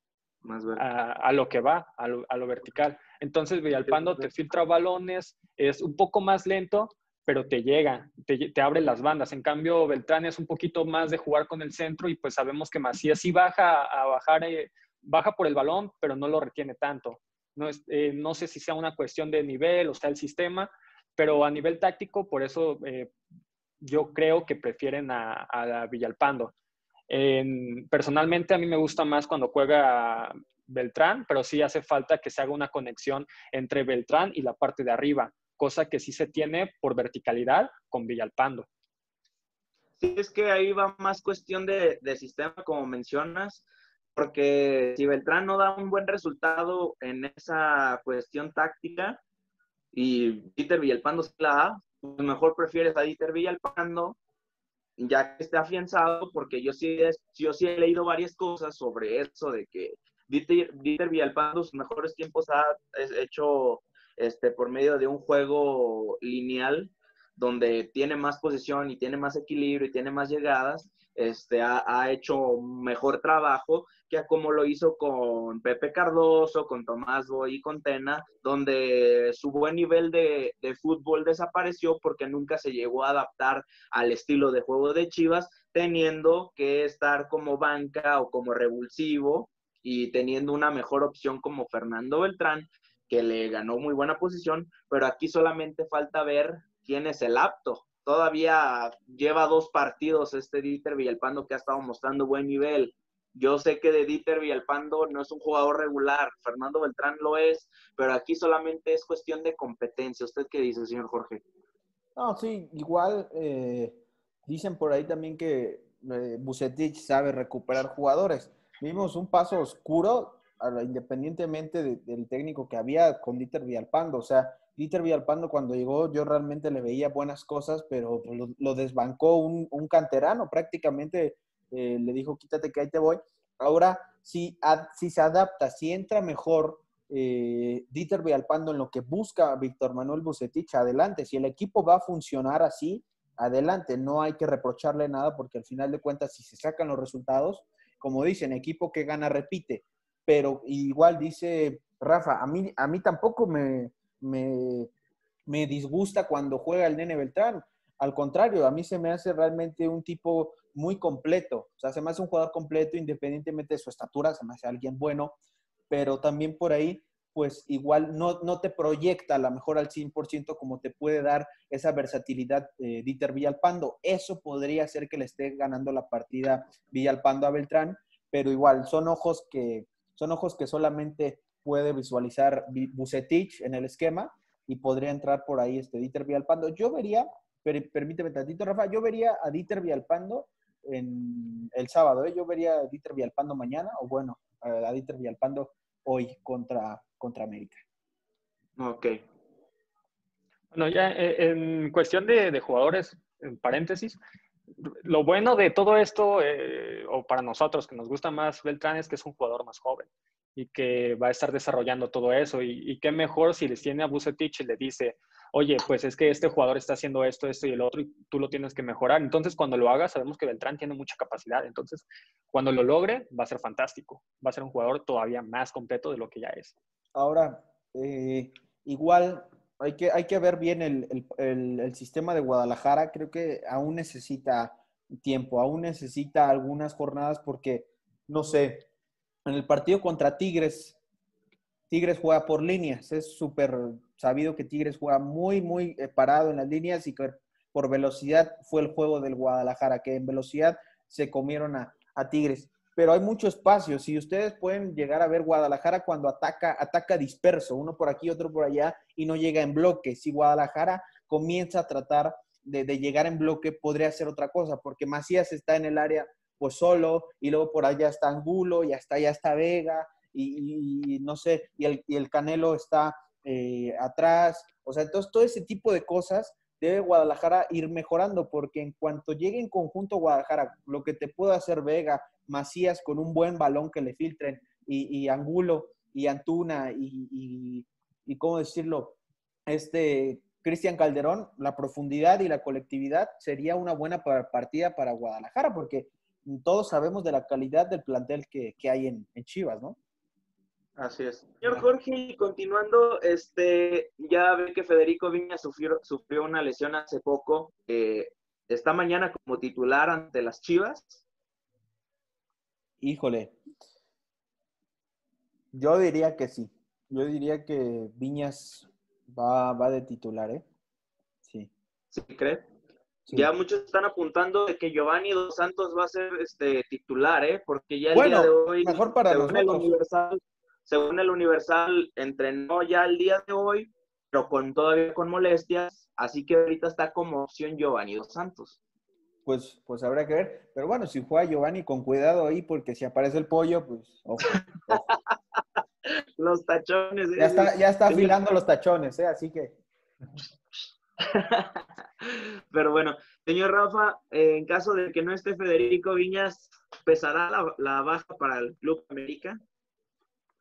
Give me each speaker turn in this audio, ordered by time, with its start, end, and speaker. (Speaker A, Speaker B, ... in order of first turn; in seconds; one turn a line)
Speaker A: 0.4-0.8
Speaker B: 0.8-23.1
Speaker A: 3.9-4.2
Speaker B: 23.8-26.5
Speaker B: 27.1-38.7
Speaker A: 40.0-43.6
Speaker A: 44.1-49.2
Speaker A: 49.9-54.2
Speaker A: 55.0-111.4
Speaker C: 112.2-154.9
Speaker C: 155.5-165.3
Speaker C: 165.9-197.8
Speaker A: 198.8-199.2
Speaker B: 200.7-204.2
Speaker B: 205.0-226.7
Speaker C: 227.1-238.8
Speaker C: 239.4-241.0
Speaker C: 241.9-289.2
Speaker C: 289.7-300.0
Speaker A: 301.0-311.2
Speaker C: 313.0-313.5
Speaker C: 315.7-320.6
Speaker C: 321.4-321.7
Speaker A: 322.1-322.6
Speaker A: 323.3-338.8
Speaker C: 328.1-329.9
Speaker C: 339.4-345.1
Speaker A: 344.4-345.1
Speaker A: 346.4-348.4
Speaker C: 347.4-349.8
Speaker A: 351.2-359.6